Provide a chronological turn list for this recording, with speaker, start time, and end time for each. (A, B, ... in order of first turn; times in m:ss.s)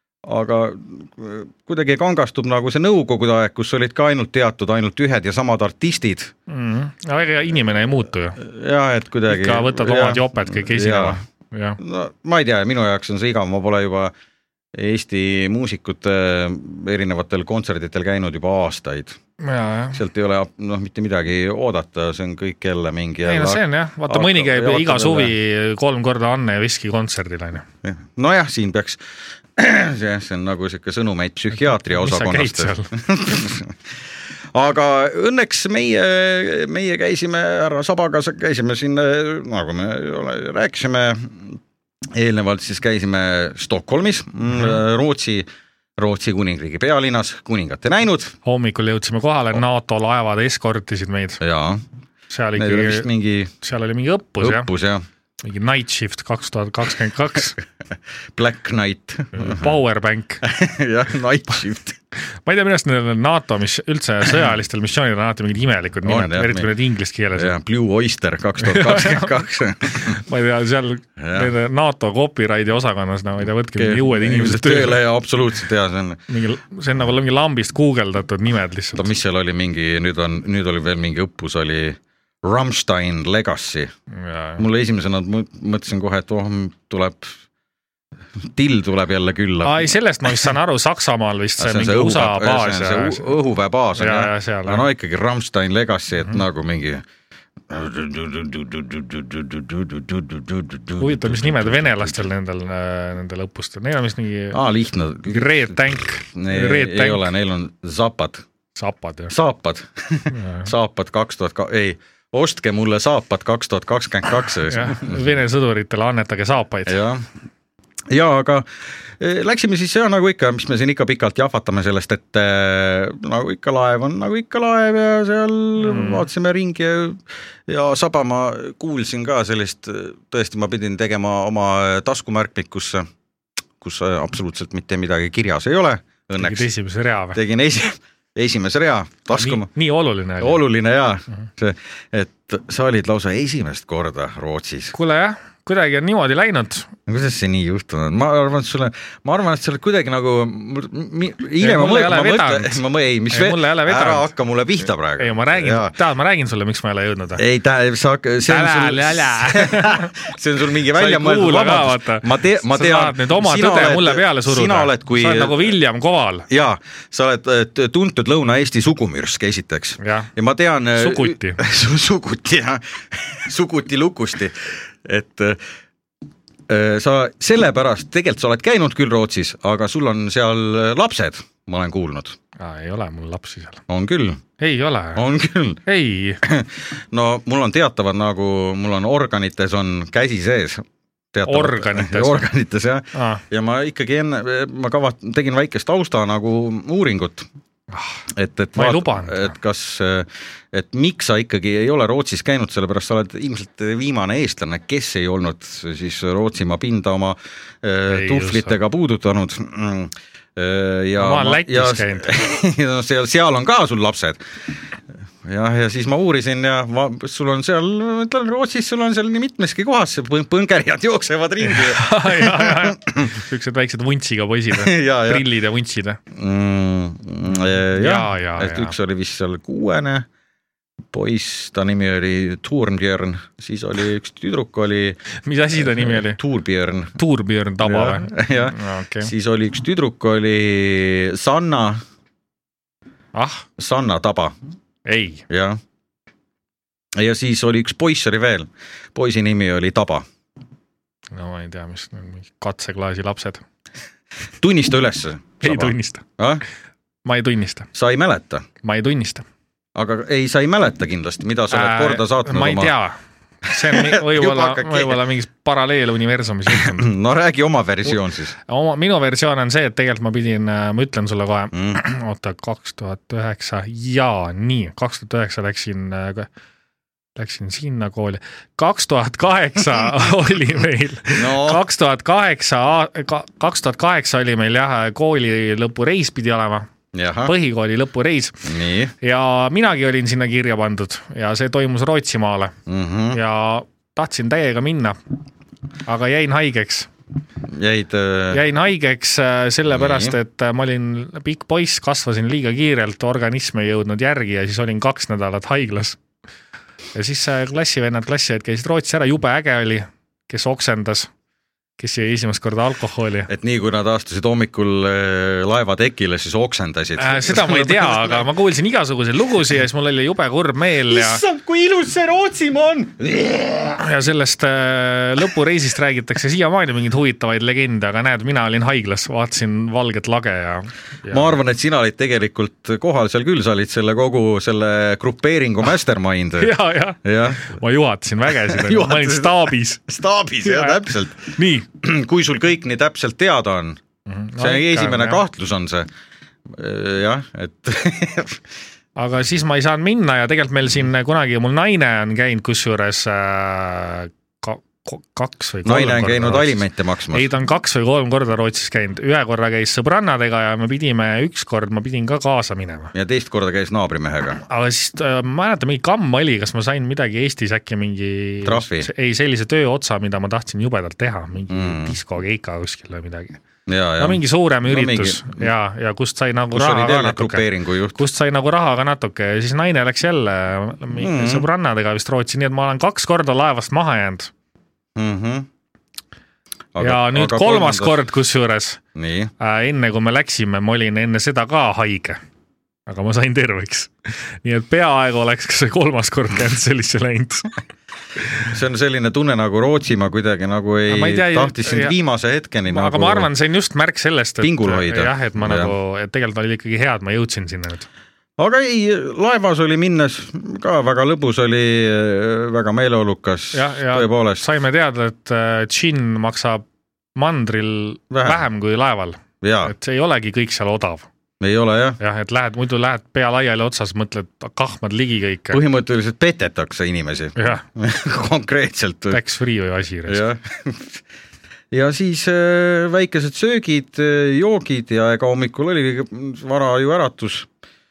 0:00.2-0:06.3 A
0:06.5-0:08.4 B
0:08.4-0:11.2 A
0:09.3-0:11.8 B
0:11.8-0:14.1 A
0:14.7-0:19.2 A
0:19.4-0:20.0 B
0:19.9-0:25.3 A
0:23.2-0:27.6 B
0:27.8-0:29.0 A
0:29.6-0:33.7 A
0:31.6-0:32.9 B
0:34.5-0:41.6 A
0:42.1-0:48.3 A
0:48.4-0:51.4 B
0:51.4-0:51.8 A
0:52.3-0:53.1 B
0:52.6-0:53.5 A
0:53.6-0:54.7 B
0:54.4-0:55.0 A
0:55.4-0:57.6 B
0:58.3-0:59.7 A
0:59.3-1:00.4 B
1:00.4-1:02.0 A
1:02.4-1:07.5 B
1:06.0-1:06.7 A
1:07.4-1:10.2 A
1:08.6-1:15.0 B
1:11.2-1:11.5 A
1:13.8-1:16.2 A
1:16.3-1:19.1 B
1:18.9-1:23.9 A
1:24.1-1:24.6 B
1:24.6-1:27.4 A
1:28.4-1:29.9 A
1:29.6-1:33.3 B
1:31.6-1:37.0 A
1:34.0-1:34.8 B
1:37.7-1:42.3 A
1:41.0-1:44.6 B
1:44.5-1:48.4 A
1:45.3-1:47.3 B
1:48.7-1:49.3 B
1:49.3-1:55.2 A
1:50.3-1:50.7 B
1:54.6-1:57.0 B
1:56.9-1:57.2 A
1:58.1-2:13.1 A
2:05.8-2:06.2 B
2:13.8-2:16.7 A
2:16.4-2:17.4 B
2:17.3-2:19.7 A
2:19.3-2:20.6 B
2:20.4-2:24.9 A
2:24.9-2:26.9 B
2:27.1-2:35.9 A
2:31.6-2:34.3 B
2:35.2-2:37.4 B
2:37.4-2:45.7 A
2:38.4-2:40.2 B
2:40.9-2:46.4 B
2:46.5-2:55.6 A
2:50.0-2:50.3 B
2:50.9-2:51.6 B
2:56.7-3:02.4 A
3:02.6-3:03.8 B
3:03.9-3:04.4 A
3:04.6-3:05.2 B
3:05.1-3:05.8 A
3:05.8-3:06.4 B
3:06.4-3:17.5 A
3:11.4-3:12.4 B
3:13.1-3:13.4 B
3:17.9-3:18.2 B
3:18.3-3:34.4 A
3:18.7-3:19.5 B
3:28.1-3:28.7 B
3:31.2-3:32.3 B
3:35.4-3:43.3 A
3:41.6-3:46.2 B
3:44.7-3:45.5 A
3:46.3-3:50.3 A
3:48.0-3:48.9 B
3:51.1-3:55.2 A
3:55.4-3:56.4 B
3:55.8-3:57.2 A
3:57.2-3:59.3 B
3:57.8-4:02.0 A
4:03.3-4:03.6 B
4:03.8-4:04.5 A
4:05.0-4:05.4 B
4:05.5-4:05.8 A
4:07.2-4:10.2 A
4:11.3-4:13.6 B
4:14.6-4:16.6 A
4:15.6-4:16.2 B
4:17.2-4:17.9 B
4:17.9-4:18.6 A
4:18.8-4:19.4 B
4:19.9-4:22.9 A
4:21.7-4:27.1 B
4:23.7-4:25.2 A
4:26.7-4:28.5 A
4:28.7-4:36.5 B
4:31.7-4:32.0 A
4:37.4-4:46.8 B
4:41.3-4:41.8 A
4:47.1-4:47.5 A
4:47.4-4:48.6 B
4:48.6-4:49.1 A
4:49.2-4:52.7 B
4:52.9-4:53.4 A
4:53.3-4:55.2 B
4:56.0-4:57.1 B
4:57.7-4:58.6 A
4:58.5-5:06.2 B
4:59.9-5:00.4 A
5:07.1-5:11.3 B
5:12.0-5:13.5 B
5:13.5-5:18.4 A
5:17.2-5:21.4 B
5:21.1-5:24.0 A
5:24.0-5:31.5 B
5:31.3-5:37.7 A
5:36.6-5:40.0 B
5:38.6-5:44.0 A
5:40.6-5:41.9 B
5:44.3-5:45.4 B
5:44.6-5:46.1 A
5:46.7-5:48.6 A
5:49.2-6:03.1 B
5:55.8-5:57.5 A
6:03.1-6:04.6 A
6:04.6-6:13.6 B
6:08.6-6:09.1 A
6:11.7-6:12.1 A
6:13.9-6:15.7 A
6:14.2-6:24.5 B
6:16.7-6:18.2 A
6:21.1-6:21.7 A
6:25.2-6:25.7 A
6:26.9-6:28.2 A
6:27.0-6:29.0 B
6:29.1-6:29.5 A
6:29.6-6:32.4 B
6:33.1-6:37.7 B
6:38.6-6:43.5 A
6:41.1-6:42.1 B
6:42.9-6:48.1 B
6:44.6-6:45.9 A
6:48.6-6:54.6 A
6:53.7-6:56.8 B
6:57.4-7:01.3 B
6:58.3-6:58.6 A
6:59.6-6:59.9 A
7:01.6-7:02.2 A
7:02.2-7:05.8 B
7:05.7-7:09.4 A
7:07.6-7:07.8 B
7:09.3-7:10.4 B
7:10.3-7:11.2 A
7:11.9-7:17.7 A